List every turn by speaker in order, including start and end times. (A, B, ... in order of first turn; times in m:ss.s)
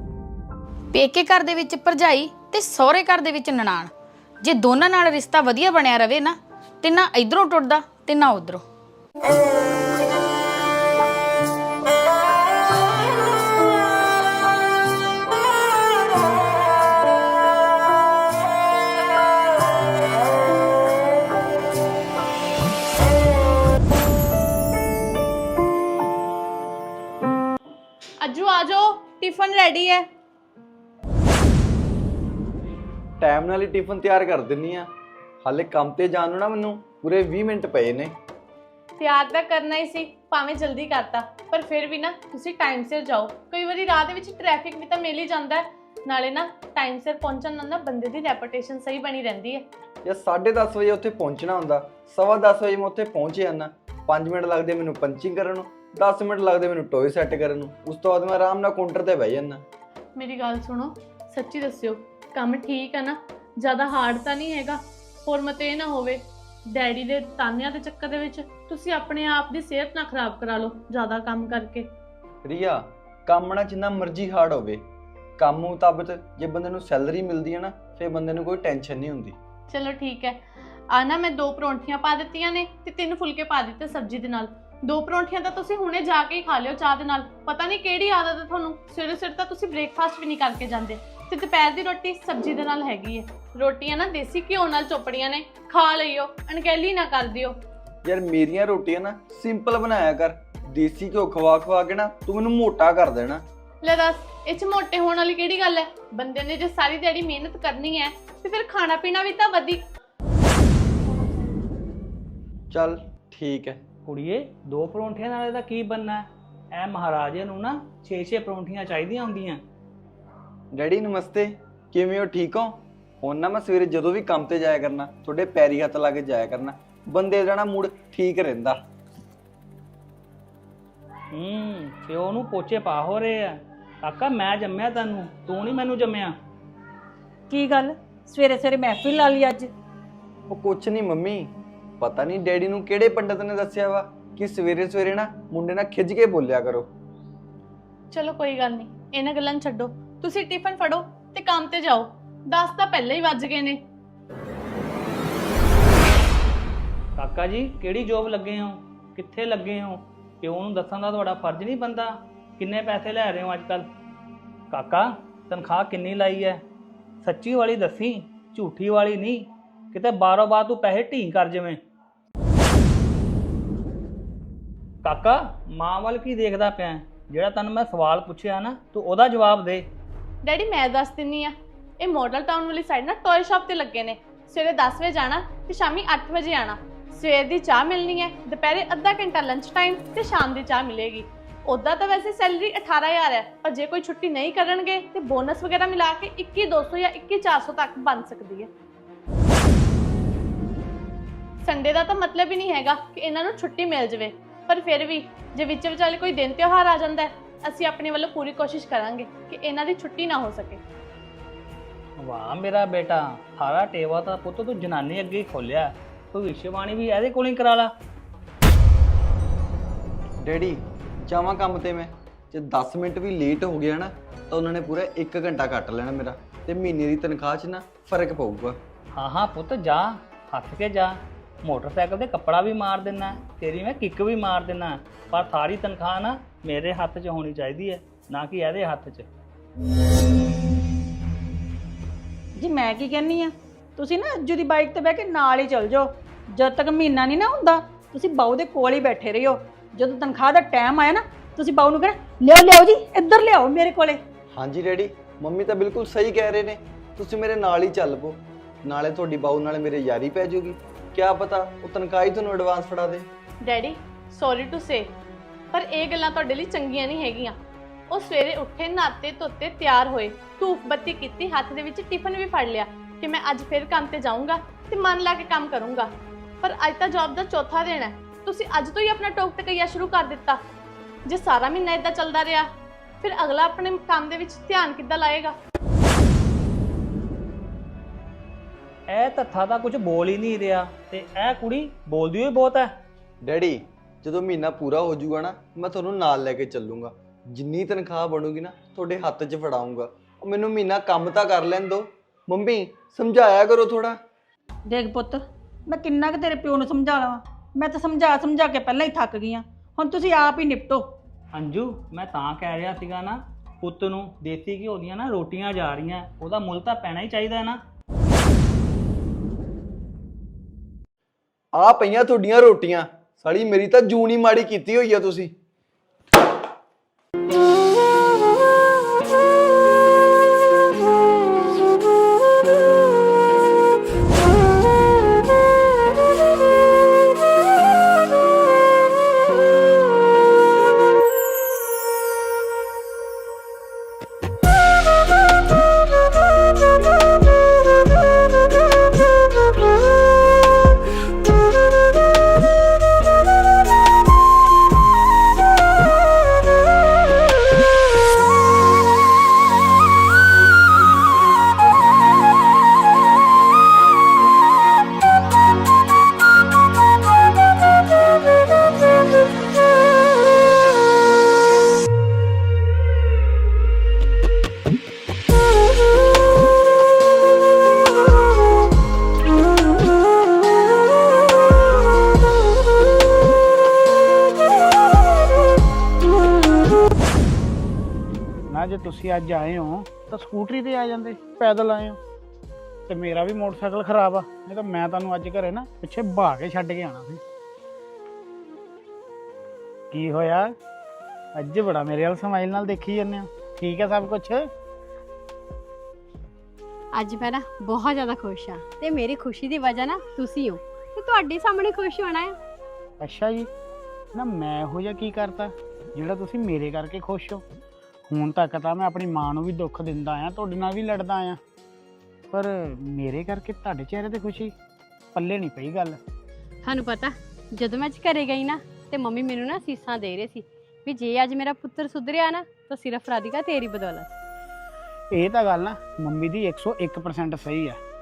0:00.9-0:08.6 A
0:28.2-0:30.0 B
0:33.2-0:34.9 C
0:35.4-0:38.1 C
0:39.0-0:45.6 B
0:46.1-0:49.6 B
0:50.0-0:59.6 C
1:00.2-1:03.1 B
1:03.6-1:04.7 B
1:05.3-1:06.1 B
1:06.8-1:11.8 B
1:12.4-1:14.8 C
1:15.4-1:19.3 C
1:19.7-1:20.3 B
1:21.0-1:37.5 B
1:38.0-1:43.4 C
1:43.8-1:49.8 B
1:52.7-1:53.8 C
1:54.0-1:59.6 D
2:00.7-2:08.8 C
2:11.3-2:16.3 D
2:17.5-2:19.7 E
2:20.5-2:26.9 C
2:28.2-2:32.0 B
2:32.6-2:33.7 B
2:37.2-2:43.8 D
2:44.7-2:46.6 D
2:47.2-2:51.8 D
2:55.0-2:59.8 D
3:00.5-3:01.5 B
3:02.1-3:18.6 B
3:21.7-3:30.8 B
3:32.2-3:37.9 D
3:40.4-3:48.8 C
3:49.1-3:59.3 D
4:02.6-4:14.2 E
4:14.5-4:23.3 C
4:24.4-4:24.9 B
4:25.8-4:27.4 B
4:28.2-4:36.0 B
4:36.6-4:40.5 B
4:41.4-4:42.6 B
4:43.3-4:45.5 B
4:49.1-4:52.9 D
4:53.4-5:04.2 C
5:04.9-5:11.1 E
5:11.5-5:17.8 D
5:21.7-5:25.5 C
6:28.7-6:32.2 F
6:33.1-6:37.4 F
6:40.1-6:40.7 F
6:41.6-6:44.6 F
6:47.1-6:52.6 G
6:53.2-6:53.7 F
6:54.3-6:57.6 F
6:58.3-7:01.6 F
7:02.5-7:04.7 F
7:05.3-7:06.2 F
7:06.8-7:14.3 G
7:15.3-7:18.0 F